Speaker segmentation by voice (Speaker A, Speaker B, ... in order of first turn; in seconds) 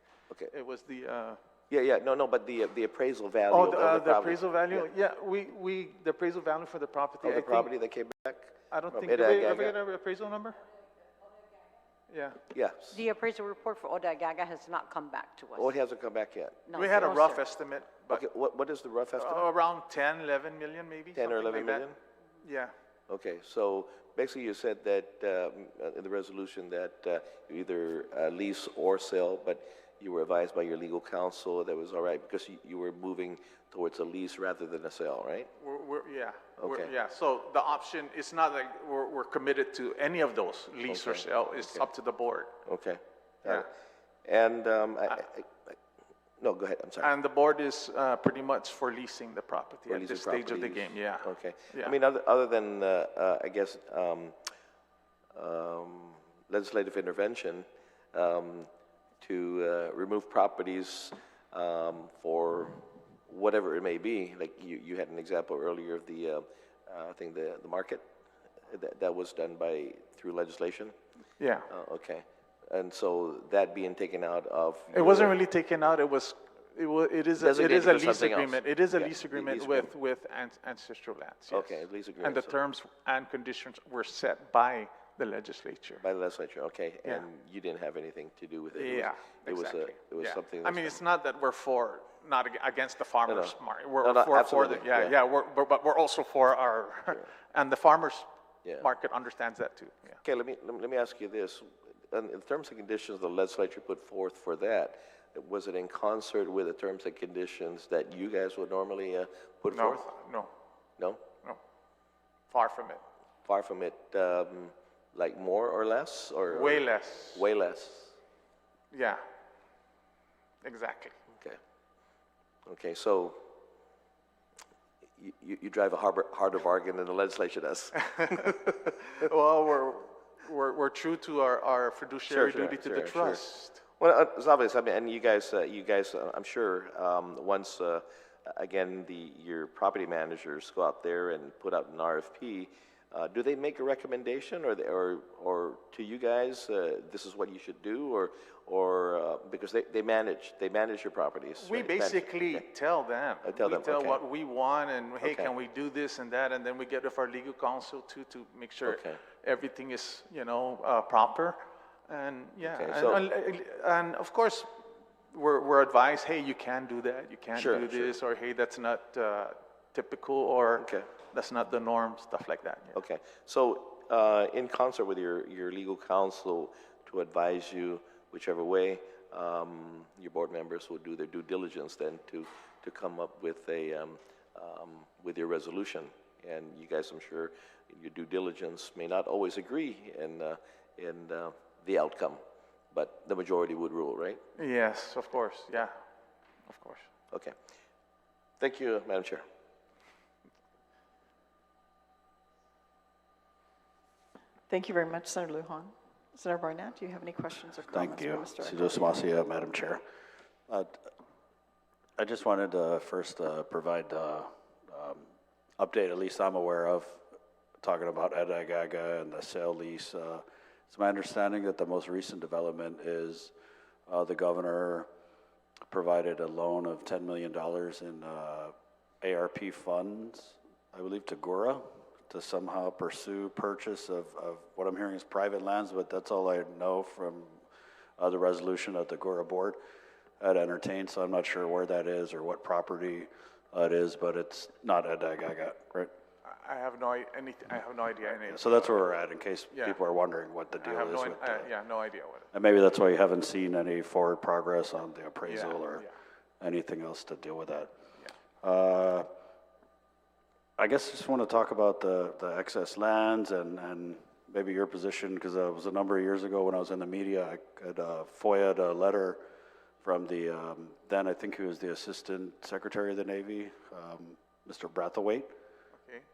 Speaker A: 0.5-1.4, 3.5-7.7, 8.7-10.6, 12.1-12.4, 16.7-18.2, 19.2-21.9, 22.4-22.7, 35.6-42.6, 47.0-52.0, 71.4-71.7, 74.9-86.0, 88.7-98.3, 98.8-100.2, 109.7-110.5, 112.5-113.0, 116.5-117.5, 118.9-119.2, 120.6-121.2, 128.0-133.8, 151.6-164.7, 165.3-173.0, 194.6-196.0, 196.7-197.1, 246.4-249.0, 249.7-250.0, 250.8-252.5, 255.5-256.1, 276.0-276.3
Speaker B: 1.7-4.9, 7.2-9.8, 12.5-13.0, 15.6-17.1, 18.1-19.5, 21.1-22.0, 23.1-35.5, 36.6-36.9, 40.9-41.9, 42.7-43.7, 44.2-45.8, 46.4-47.1, 49.9-54.4, 55.3-58.7, 59.2-68.1, 68.7-71.0, 71.7-75.3, 77.4-79.9, 81.5-82.6, 86.0-91.0, 93.3-95.2, 100.2-110.1, 111.0-111.2, 113.5-118.1, 121.3-121.6, 122.7-123.4, 125.2-128.9, 132.3-152.7, 153.4-154.2, 155.2-155.5, 158.8-159.2, 162.6-163.2, 167.5-168.2, 170.8-171.1, 172.9-192.4, 192.9-194.4, 198.6-199.4
Speaker C: 12.9-15.7, 16.7-17.4
Speaker D: 204.7-209.1
Speaker E: 207.9-210.0, 210.7-210.9, 212.2-215.3, 215.8-217.2, 217.8-223.5, 224.1-225.1, 225.9-237.6, 238.2-239.8, 240.4-246.1, 248.4-251.7, 252.5-256.1, 256.6-257.9, 258.6-259.3, 260.8-269.4, 270.0-275.5